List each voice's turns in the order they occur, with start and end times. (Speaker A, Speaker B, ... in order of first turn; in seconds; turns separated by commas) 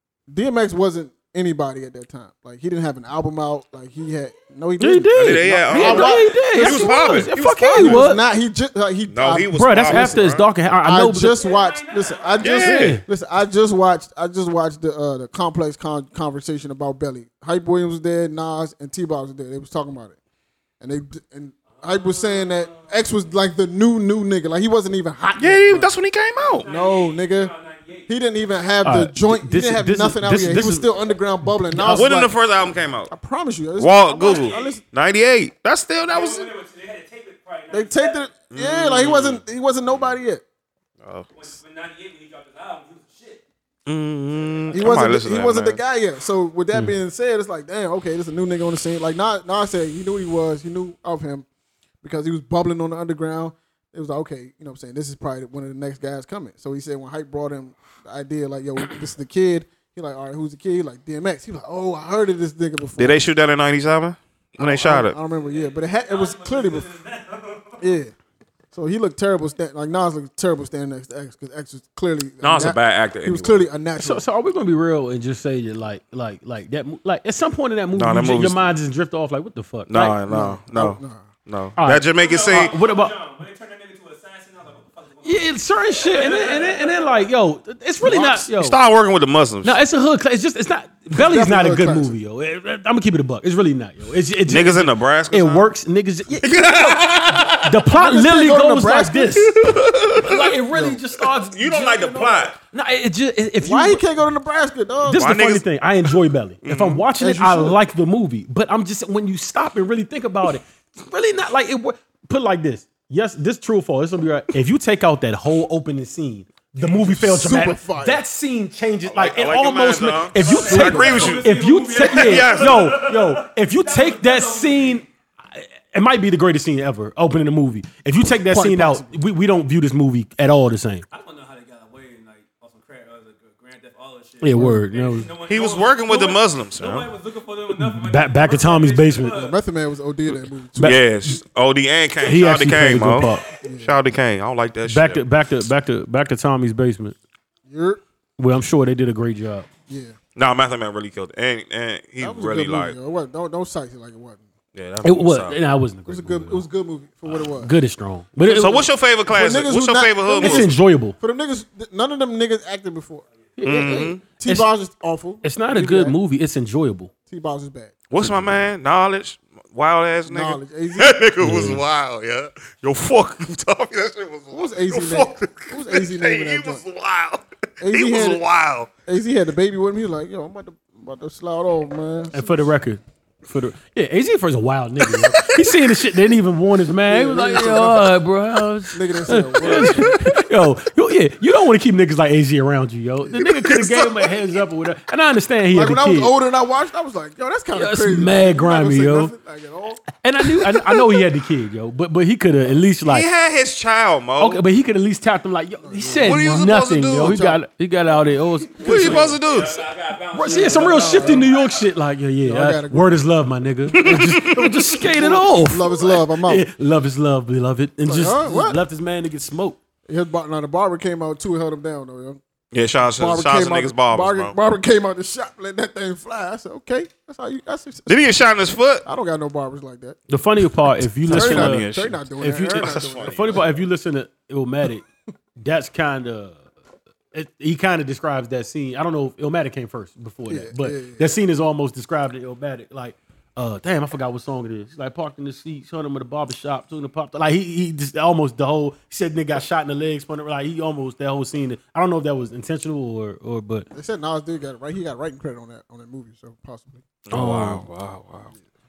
Speaker A: 0.3-10.2, Speaker B: 4.8-8.2, Speaker C: 5.1-8.0, Speaker C: 9.1-10.5, Speaker B: 9.5-11.4, Speaker A: 10.8-20.2, Speaker D: 11.4-12.6, Speaker C: 12.4-13.0, Speaker B: 12.5-13.0, Speaker A: 20.8-25.9, Speaker D: 21.7-23.1, Speaker C: 25.4-26.7, Speaker D: 26.4-28.1, Speaker A: 26.6-27.5, Speaker A: 28.1-32.4, Speaker B: 28.8-30.9, Speaker B: 31.5-32.2, Speaker C: 31.9-33.1, Speaker A: 33.1-34.8, Speaker C: 33.8-36.5, Speaker D: 34.1-34.8, Speaker D: 36.1-38.3, Speaker A: 37.7-40.4, Speaker C: 38.5-40.1, Speaker C: 41.0-41.5, Speaker D: 41.3-43.4, Speaker C: 43.9-45.8, Speaker D: 44.3-44.9, Speaker A: 44.7-51.5, Speaker A: 52.0-63.2, Speaker C: 63.0-65.2, Speaker A: 64.6-66.9, Speaker D: 65.3-67.8, Speaker A: 67.8-68.1, Speaker A: 68.7-74.2, Speaker C: 72.4-73.7, Speaker B: 74.0-80.2, Speaker C: 77.9-78.7, Speaker C: 79.9-82.7, Speaker A: 80.2-81.3, Speaker B: 81.8-83.1, Speaker D: 82.1-87.2, Speaker B: 85.2-88.8, Speaker A: 88.0-88.5, Speaker C: 88.5-89.8, Speaker B: 89.6-99.6, Speaker A: 91.1-92.2, Speaker C: 94.5-95.7, Speaker C: 96.3-97.8, Speaker A: 97.9-99.5, Speaker C: 99.4-100.6, Speaker B: 100.2-104.0, Speaker A: 100.7-101.0, Speaker C: 101.2-102.5, Speaker A: 103.6-105.3, Speaker B: 105.0-131.1, Speaker C: 105.1-105.6, Speaker C: 106.6-107.0, Speaker A: 107.2-107.8, Speaker A: 116.8-118.2, Speaker C: 119.0-123.0, Speaker D: 120.3-125.0, Speaker A: 128.3-129.2, Speaker D: 131.1-139.6, Speaker B: 134.4-135.3, Speaker A: 134.5-134.8, Speaker C: 135.4-137.1, Speaker B: 137.7-139.4, Speaker A: 139.3-141.0, Speaker B: 140.8-141.3, Speaker C: 140.8-145.2, Speaker B: 142.2-143.5, Speaker A: 143.6-144.0, Speaker B: 144.8-147.2, Speaker A: 147.7-148.0, Speaker B: 148.4-149.7, Speaker A: 149.9-150.2, Speaker C: 150.3-152.9, Speaker A: 152.2-154.4, Speaker C: 154.7-155.6, Speaker B: 155.0-156.7, Speaker A: 156.1-157.7, Speaker B: 157.3-158.9, Speaker C: 158.4-160.7, Speaker A: 159.3-163.2, Speaker B: 160.4-161.2, Speaker B: 163.6-164.7, Speaker C: 163.6-164.2, Speaker A: 163.8-166.2, Speaker B: 165.4-167.1, Speaker A: 167.3-168.0, Speaker C: 168.1-178.9, Speaker B: 168.2-168.7, Speaker A: 170.3-171.2, Speaker B: 171.4-171.8, Speaker A: 174.5-176.8, Speaker A: 177.8-178.4, Speaker A: 179.1-182.7, Speaker B: 182.3-196.3, Speaker C: 185.1-185.8, Speaker A: 187.0-188.2, Speaker A: 188.9-190.4, Speaker C: 189.7-190.3, Speaker A: 193.2-193.5, Speaker C: 193.7-194.3, Speaker A: 195.7-200.0, Speaker B: 197.7-199.3, Speaker B: 200.2-203.3, Speaker C: 203.1-204.6, Speaker B: 204.4-209.3, Speaker A: 205.8-207.6, Speaker C: 206.1-207.4, Speaker C: 208.8-209.9, Speaker D: 208.8-211.9, Speaker B: 210.3-219.8, Speaker A: 210.4-211.5, Speaker A: 212.4-213.1, Speaker C: 213.9-214.9, Speaker A: 214.9-216.7, Speaker A: 218.0-218.8, Speaker A: 220.1-222.4, Speaker C: 222.7-224.6, Speaker A: 223.1-228.3, Speaker C: 228.1-229.0, Speaker A: 229.0-230.2, Speaker B: 230.3-231.9, Speaker C: 231.2-233.7, Speaker A: 231.2-233.7, Speaker B: 232.4-235.1, Speaker B: 235.6-236.6, Speaker B: 237.3-253.9, Speaker A: 240.5-241.4, Speaker A: 253.9-257.0, Speaker C: 257.2-258.5, Speaker B: 257.3-257.9